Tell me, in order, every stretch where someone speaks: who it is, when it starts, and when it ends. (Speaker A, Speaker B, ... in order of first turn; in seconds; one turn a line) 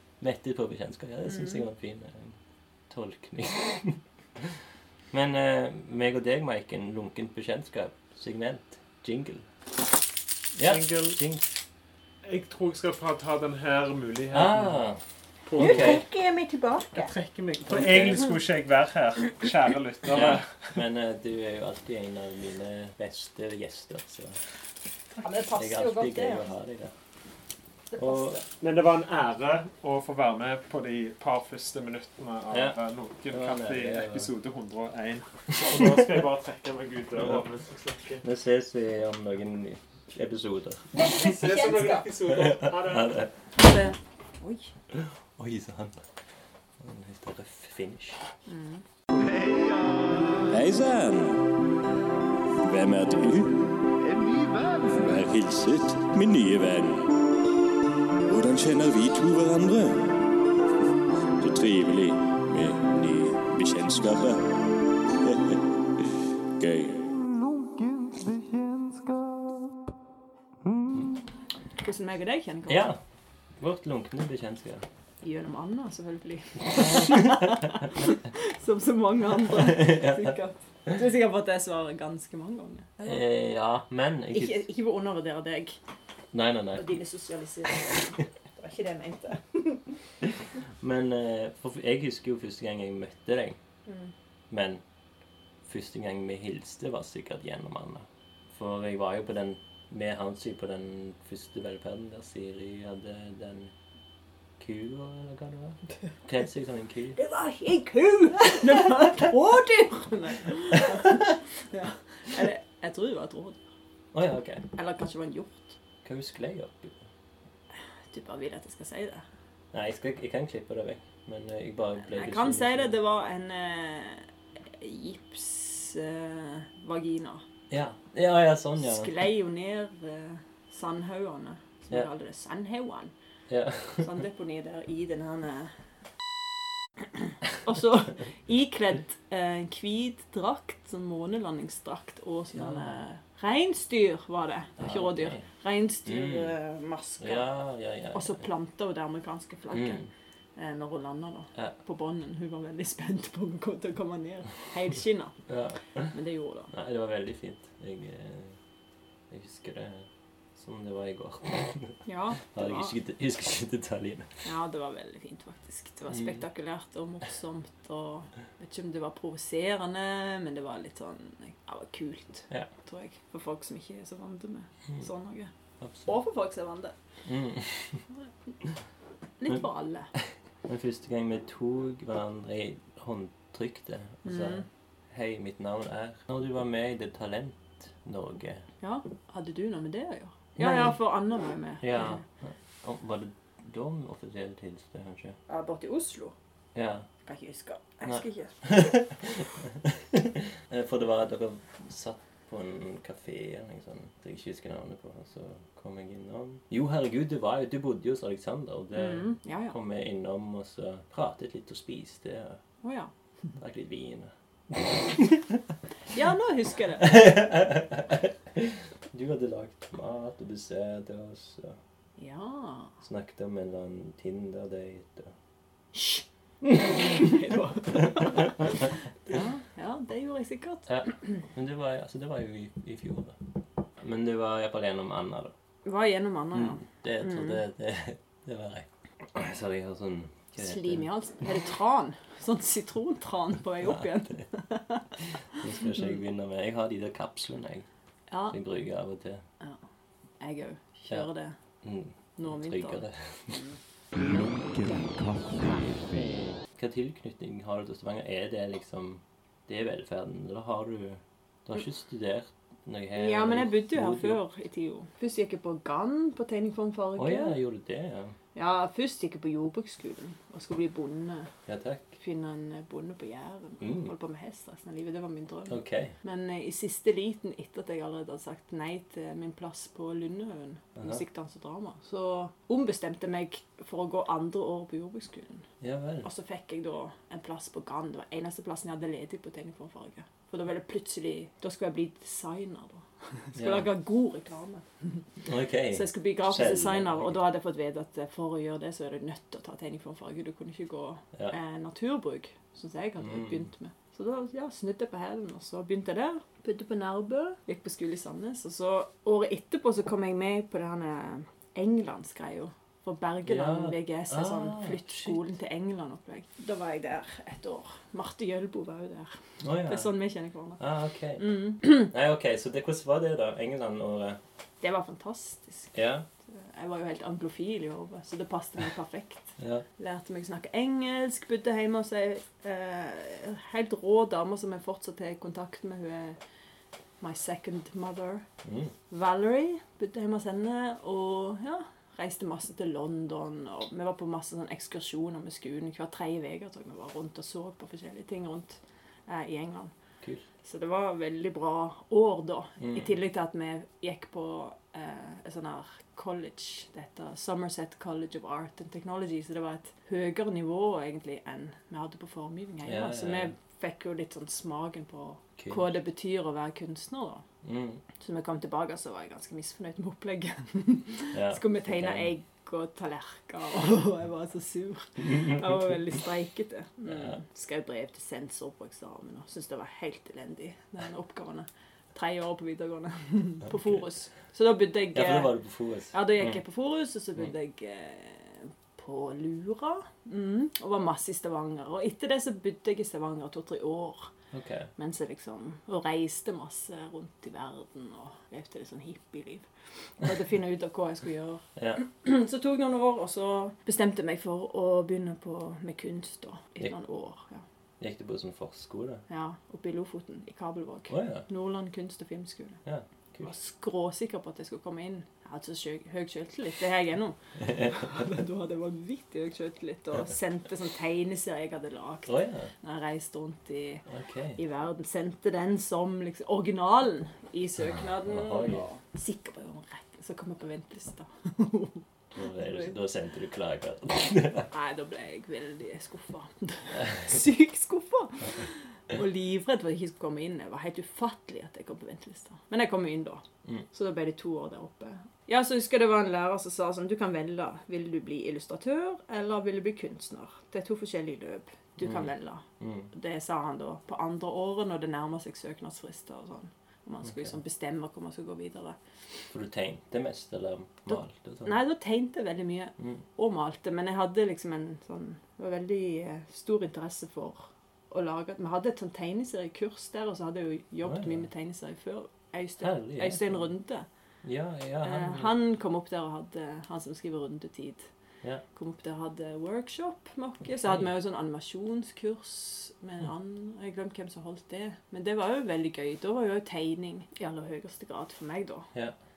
Speaker A: 0.2-2.4
Speaker B: 1.3-1.6
Speaker A: 2.9-4.5
Speaker A: 5.1-9.5
Speaker A: 10.5-11.4
Speaker C: 10.6-11.2
Speaker C: 12.2-14.8
Speaker A: 14.3-15.0
Speaker C: 15.4-16.0
Speaker A: 15.6-16.0
Speaker B: 15.6-17.1
Speaker C: 16.9-20.8
Speaker A: 17.7-18.3
Speaker A: 20.1-24.4
Speaker B: 25.1-26.5
Speaker A: 25.5-26.9
Speaker B: 27.9-28.4
Speaker A: 28.0-28.4
Speaker C: 28.6-38.2
Speaker A: 32.5-32.8
Speaker A: 33.3-34.3
Speaker A: 38.2-41.2
Speaker B: 40.9-42.1
Speaker C: 41.1-43.2
Speaker A: 42.3-43.3
Speaker B: 43.6-44.7
Speaker A: 44.9-46.0
Speaker A: 46.8-48.2
Speaker B: 48.5-48.8
Speaker D: 50.5-51.4
Speaker D: 52.7-53.6
Speaker D: 54.8-57.1
Speaker D: 58.3-60.2
Speaker D: 61.4-64.4
Speaker D: 66.6-67.1
Speaker B: 71.8-72.9
Speaker A: 72.7-73.0
Speaker A: 73.6-74.8
Speaker B: 75.2-83.2
Speaker A: 77.0-77.5
Speaker A: 79.6-80.3
Speaker A: 83.0-84.6
Speaker B: 84.3-85.8
Speaker A: 86.3-87.0
Speaker B: 86.7-89.8
Speaker A: 90.8-93.6
Speaker B: 93.8-94.1
Speaker A: 94.5-94.8
Speaker A: 95.7-103.7
Speaker A: 104.6-107.2
Speaker B: 107.2-113.6
Speaker A: 114.1-114.6
Speaker B: 114.7-115.7
Speaker A: 116.0-117.0
Speaker B: 118.1-119.2
Speaker A: 119.7-122.9
Speaker B: 122.0-127.4
Speaker A: 127.7-129.1
Speaker B: 128.8-133.1
Speaker A: 133.5-134.1
Speaker B: 134.0-135.8
Speaker B: 137.5-147.5
Speaker A: 142.5-143.0
Speaker A: 144.8-145.5
Speaker A: 146.1-146.5
Speaker A: 147.2-148.4
Speaker B: 148.1-150.0
Speaker A: 149.7-150.1
Speaker B: 150.6-155.4
Speaker A: 155.5-156.1
Speaker B: 156.1-156.7
Speaker A: 156.7-158.6
Speaker A: 159.3-164.4
Speaker B: 162.1-162.9
Speaker B: 164.4-175.5
Speaker A: 166.1-166.4
Speaker A: 175.8-176.1
Speaker B: 176.1-176.9
Speaker A: 177.2-178.0
Speaker B: 179.4-180.1
Speaker A: 180.7-188.7
Speaker B: 184.2-184.7
Speaker B: 188.8-192.2
Speaker A: 190.6-191.0
Speaker A: 191.8-195.4
Speaker B: 195.5-196.3
Speaker A: 196.7-197.1
Speaker B: 197.2-198.8
Speaker A: 198.0-212.6
Speaker B: 208.9-209.8
Speaker B: 212.8-213.1
Speaker A: 213.6-215.6
Speaker B: 216.1-217.3
Speaker A: 217.0-221.8
Speaker B: 222.2-222.9
Speaker A: 223.0-225.3
Speaker B: 225.9-231.1
Speaker A: 226.7-227.2
Speaker A: 227.9-228.5
Speaker A: 230.9-233.4
Speaker A: 234.0-235.5
Speaker B: 235.8-237.6
Speaker A: 236.5-241.0
Speaker B: 240.6-245.1
Speaker A: 243.8-244.4
Speaker A: 245.5-247.9
Speaker B: 248.3-248.6
Speaker A: 248.5-249.4
Speaker B: 250.4-251.6
Speaker A: 251.8-253.7
Speaker B: 252.4-253.7
Speaker E: 254.1-256.5
Speaker A: 256.2-264.4
Speaker B: 263.1-267.6
Speaker A: 267.2-268.4
Speaker B: 268.5-271.5
Speaker A: 271.7-272.1
Speaker B: 272.2-285.6
Speaker A: 273.8-274.1
Speaker A: 275.7-276.1
Speaker A: 281.0-281.2
Speaker A: 285.8-286.3
Speaker B: 286.2-295.2
Speaker A: 293.5-293.9
Speaker A: 295.4-297.4
Speaker B: 295.9-320.8
Speaker A: 303.2-303.7
Speaker A: 313.4-315.4
Speaker A: 319.6-320.1
Speaker A: 320.8-324.4
Speaker B: 321.4-322.1
Speaker B: 324.8-325.9
Speaker A: 325.9-326.2
Speaker B: 326.5-336.4
Speaker A: 329.6-329.8
Speaker B: 337.2-338.4
Speaker A: 338.6-338.9
Speaker B: 339.1-349.9
Speaker B: 350.6-367.4
Speaker A: 352.8-353.1
Speaker A: 362.8-363.5
Speaker A: 365.6-365.9
Speaker A: 367.6-368.0
Speaker B: 368.2-385.6
Speaker A: 371.3-372.3
Speaker A: 377.1-377.4
Speaker A: 383.7-384.0
Speaker A: 385.1-386.6
Speaker B: 386.1-394.3
Speaker A: 394.5-394.9
Speaker B: 395.0-407.6
Speaker A: 401.8-402.0
Speaker A: 408.0-409.2
Speaker B: 409.3-412.8
Speaker A: 411.1-411.5
Speaker A: 412.8-413.5
Speaker B: 413.4-424.0
Speaker A: 417.6-418.0
Speaker A: 422.2-422.7
Speaker A: 424.1-424.6
Speaker B: 424.6-432.9
Speaker A: 428.2-428.8
Speaker A: 432.3-434.7
Speaker B: 434.7-459.0
Speaker A: 452.0-453.1
Speaker A: 457.2-457.6
Speaker A: 459.5-461.8
Speaker B: 461.1-474.1
Speaker A: 471.0-471.4
Speaker A: 472.8-473.7
Speaker A: 474.4-475.5
Speaker B: 475.0-478.1
Speaker B: 478.7-488.9